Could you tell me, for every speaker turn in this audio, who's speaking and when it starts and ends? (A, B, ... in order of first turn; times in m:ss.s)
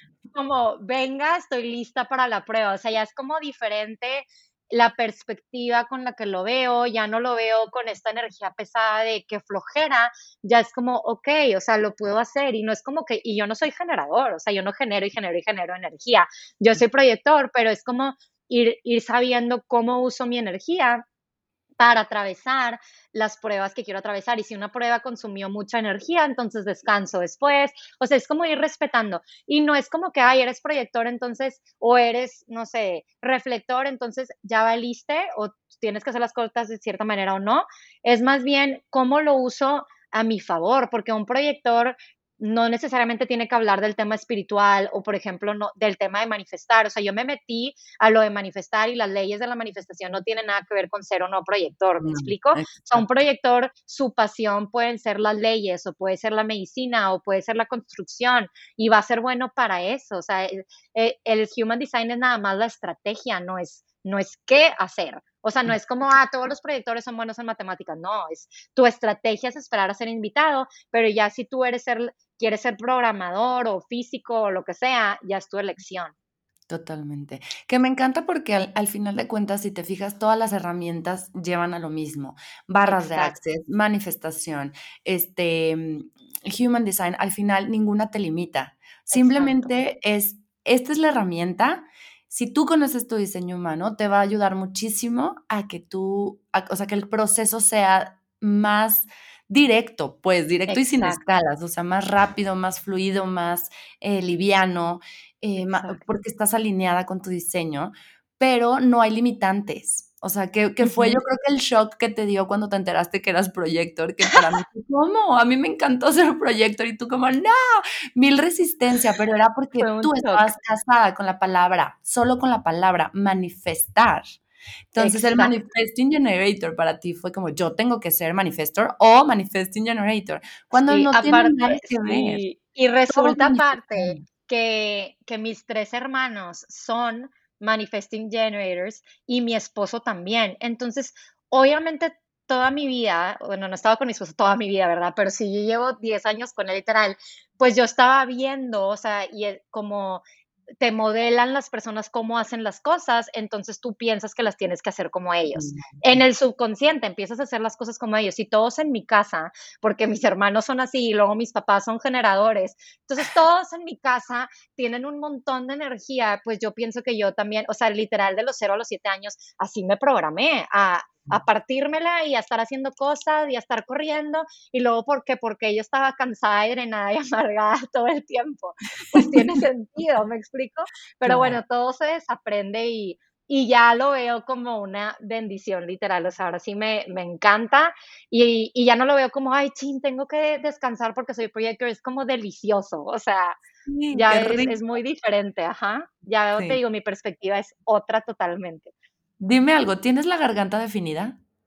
0:00.3-0:21.0 A
0:21.8-1:16.1 A
0:52.0-0:53.1 B
1:16.7-2:04.2 B
1:22.8-1:23.4 A
1:29.1-1:29.8 A
1:40.7-1:41.2 A
1:45.6-1:46.0 A
1:50.8-1:51.2 A
1:59.8-2:00.5 A
2:04.9-2:12.4 B
2:05.0-2:05.5 A
2:10.7-2:30.2 A
2:13.1-2:14.2 B
2:30.8-3:13.6 A
2:35.6-2:36.0 B
2:59.2-2:59.6 B
3:01.2-3:01.6 B
3:13.9-3:14.8 B
3:14.1-3:18.9 A
3:16.6-3:16.8 B
3:19.4-3:21.4 B